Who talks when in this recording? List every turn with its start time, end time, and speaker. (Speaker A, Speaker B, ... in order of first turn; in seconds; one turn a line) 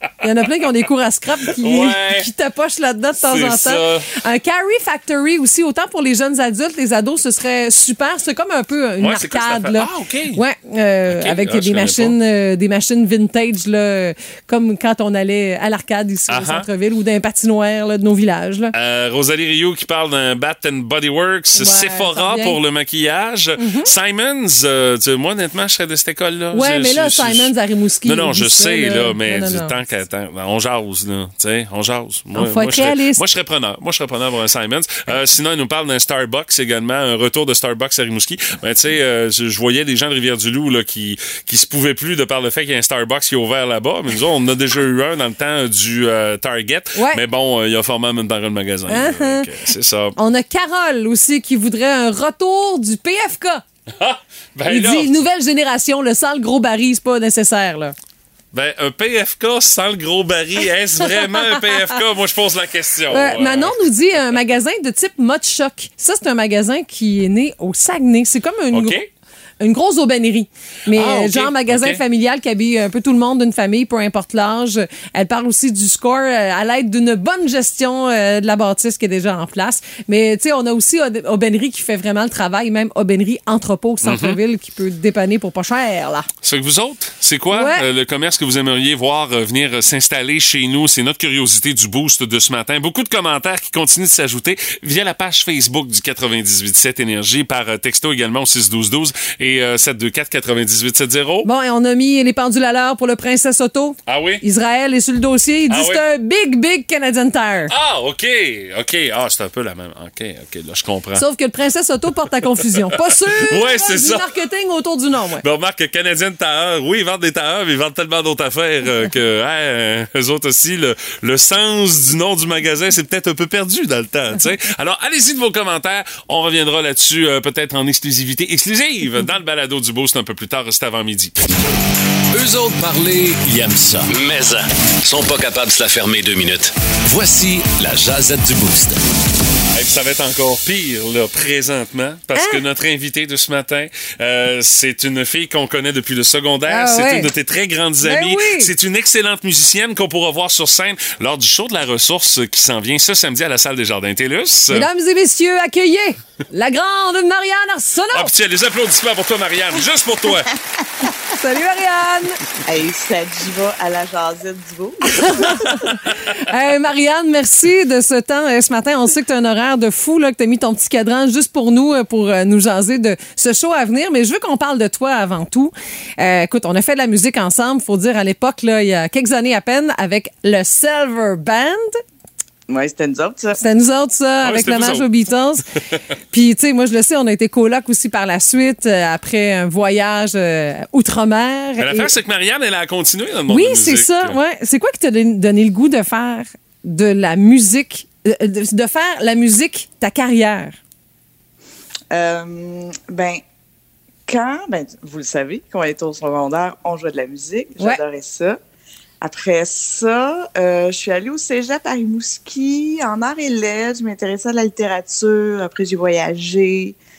Speaker A: 0.2-18.7
Speaker B: 1.6-2.3
Speaker B: 3.2-4.1
Speaker B: 9.0-10.4
Speaker B: 11.1-12.2
Speaker B: 16.3-16.7
Speaker B: 18.7-27.5
Speaker A: 21.5-22.6
Speaker A: 23.6-23.9
Speaker A: 26.5-29.8
Speaker B: 28.0-50.1
Speaker A: 32.3-33.2
Speaker A: 47.0-47.2
Speaker A: 48.9-49.5
Speaker A: 50.2-53.6
Speaker B: 53.9-55.1
Speaker A: 54.6-57.9
Speaker B: 58.5-63.8
Speaker A: 61.2-61.9
Speaker A: 63.1-69.0
Speaker B: 68.7-69.1
Speaker A: 69.6-86.3
Speaker B: 70.9-72.0
Speaker B: 84.0-84.4
Speaker B: 86.4-101.5
Speaker A: 87.5-87.8
Speaker A: 101.4-107.7
Speaker B: 104.1-104.4
Speaker B: 105.7-106.0
Speaker B: 107.7-111.2
Speaker A: 111.2-115.4
Speaker B: 112.8-114.3
Speaker B: 115.4-131.5
Speaker C: 132.3-139.0
Speaker B: 139.7-154.9
Speaker A: 142.3-142.6
Speaker A: 146.7-147.3
Speaker A: 148.0-148.7
Speaker A: 154.7-158.3
Speaker B: 158.1-160.5
Speaker A: 161.4-162.4
Speaker D: 162.7-165.9
Speaker A: 165.2-165.8
Speaker A: 166.3-182.0
Speaker D: 182.7-183.6
Speaker A: 183.6-185.7
Speaker B: 184.4-185.1
Speaker A: 186.3-192.1
Speaker B: 191.8-194.4
Speaker A: 193.5-200.8
Speaker D: 202.1-203.4
Speaker D: 204.3-208.6
Speaker D: 209.2-217.0